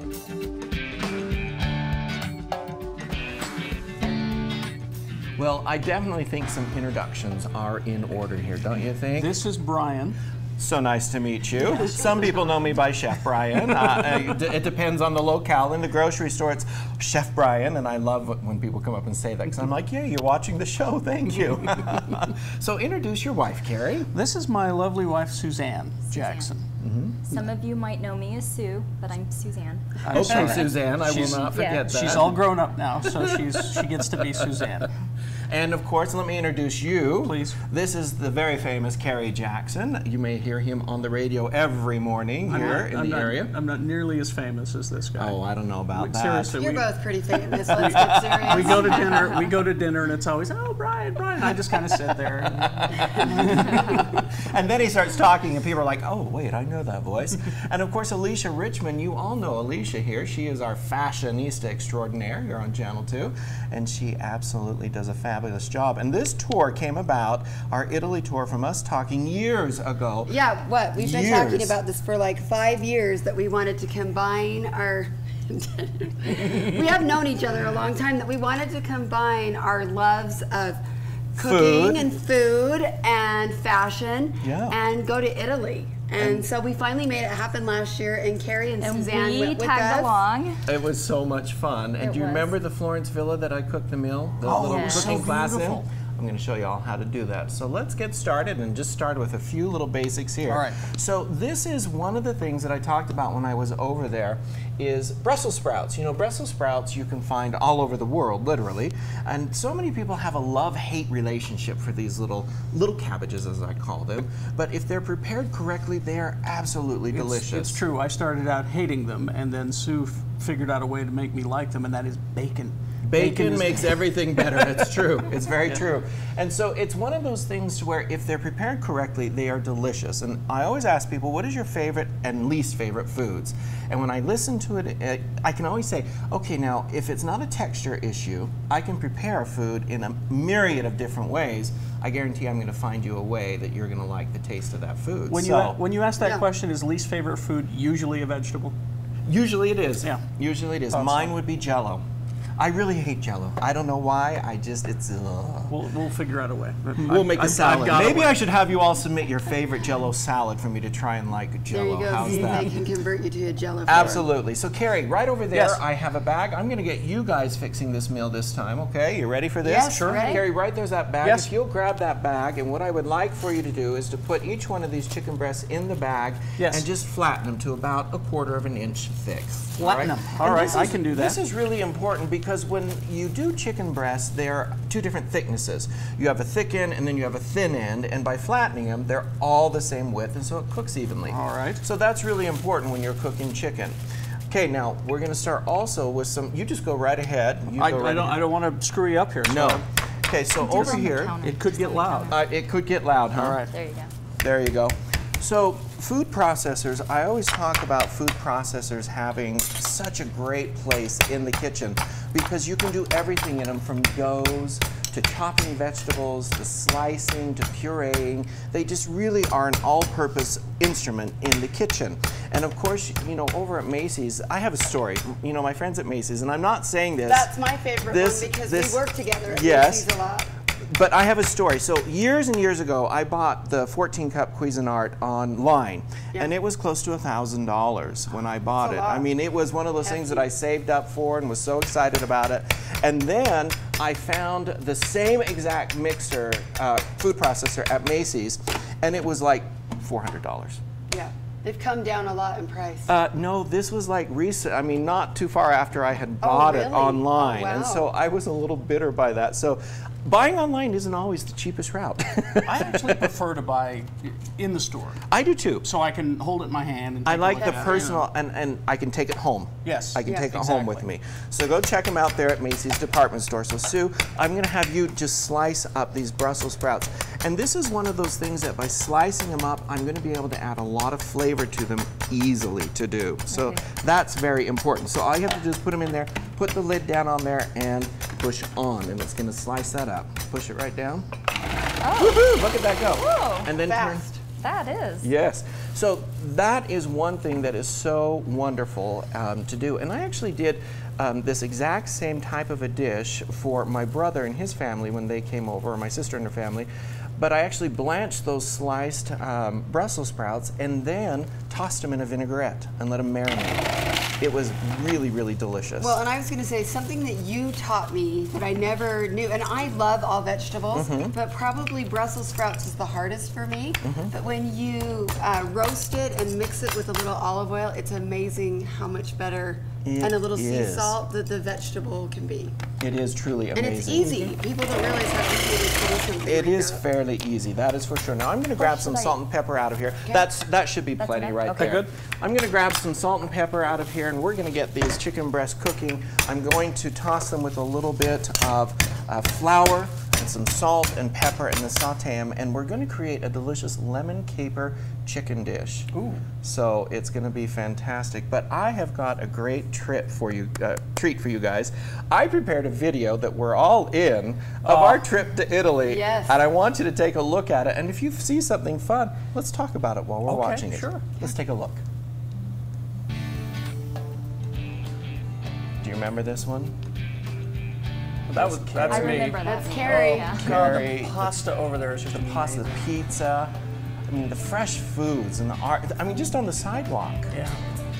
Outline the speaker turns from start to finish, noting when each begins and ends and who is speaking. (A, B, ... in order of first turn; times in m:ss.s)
0:05.4-0:09.3 A
0:09.1-0:10.2 B
0:10.6-0:24.1 A
0:24.1-0:26.6 B
0:26.1-0:26.5 C
0:26.8-0:27.2 A
0:27.3-0:30.7 C
0:30.0-0:34.9 B
0:30.1-0:32.4 A
0:31.4-0:31.9 C
0:33.0-0:34.6 A
0:35.5-0:43.5 A
0:37.2-0:37.6 B
0:42.5-0:45.4 B
0:45.2-0:46.6 A
0:45.9-0:46.9 B
0:46.6-0:49.2 D
0:47.6-0:54.1 B
0:47.7-0:49.0 A
0:51.4-0:51.7 A
0:52.5-1:10.3 A
1:10.2-1:20.8 D
1:11.0-1:11.8 A
1:21.3-1:30.2 D
1:21.4-1:22.1 A
1:24.4-1:24.8 A
1:26.2-1:26.4 A
1:28.8-1:30.6 C
1:30.6-1:57.8 A
1:32.0-1:32.5 C
1:34.4-1:35.8 B
1:34.5-1:35.2 C
1:40.5-1:40.8 B
1:57.1-2:05.0 B
2:03.0-2:25.8 A
2:25.3-2:28.7 B
2:26.2-2:26.4 D
2:29.2-2:32.0 A
2:30.9-2:31.3 B
2:32.6-2:35.8 A
2:35.7-2:38.4 B
2:37.0-2:42.7 A
2:41.7-2:44.3 D
2:43.8-3:14.0 A
2:45.5-2:45.8 B
2:49.6-2:50.4 D
2:49.8-2:50.3 B
2:51.2-2:51.5 B
2:56.6-2:56.8 B
2:59.8-3:01.4 B
3:11.3-3:11.8 B
3:14.5-3:18.4 A
3:17.8-3:19.8 B
3:19.4-3:21.4 A
3:20.6-3:22.4 C
3:20.7-3:22.4 B
3:22.2-3:23.6 A
3:23.3-3:23.7 B
3:23.7-3:24.1 C
3:24.4-3:47.5 A
3:47.3-3:50.5 D
3:48.1-3:50.1 A
3:50.8-4:10.8 A
3:58.8-3:59.2 D
4:00.0-4:00.4 D
4:11.1-4:13.1 D
4:13.1-4:23.3 A
4:16.4-4:18.1 D
4:22.6-4:25.2 B
4:25.3-4:25.9 A
4:25.8-4:28.3 B
4:27.2-4:51.3 A
4:27.6-4:28.0 D
4:29.8-4:31.0 B
4:30.2-4:30.5 D
4:43.5-4:43.8 C
4:52.0-4:52.5 C
4:52.1-4:54.3 A
4:53.1-4:53.7 C
4:53.8-4:54.4 D
4:54.6-4:55.3 C
4:55.2-5:16.2 A
5:16.0-5:32.7 D
5:20.9-5:21.3 A
5:24.0-5:24.3 A
5:30.0-5:31.2 A
5:33.0-5:34.5 A
5:33.7-5:37.0 D
5:36.4-5:56.1 A
5:38.8-5:39.4 D
5:41.2-5:42.0 C
5:41.8-5:42.1 B
5:56.1-5:56.4 B
5:56.6-6:12.0 A
6:04.8-6:05.2 B
6:06.0-6:06.6 D
6:10.5-6:11.2 B
6:16.0-6:17.0 A
6:18.5-6:23.0 B
6:18.5-6:19.6 A
6:19.0-6:21.0 C
6:19.6-6:20.6 D
6:20.5-6:21.6 A
6:22.2-6:23.7 A
6:24.3-6:27.6 A
6:27.5-6:27.8 B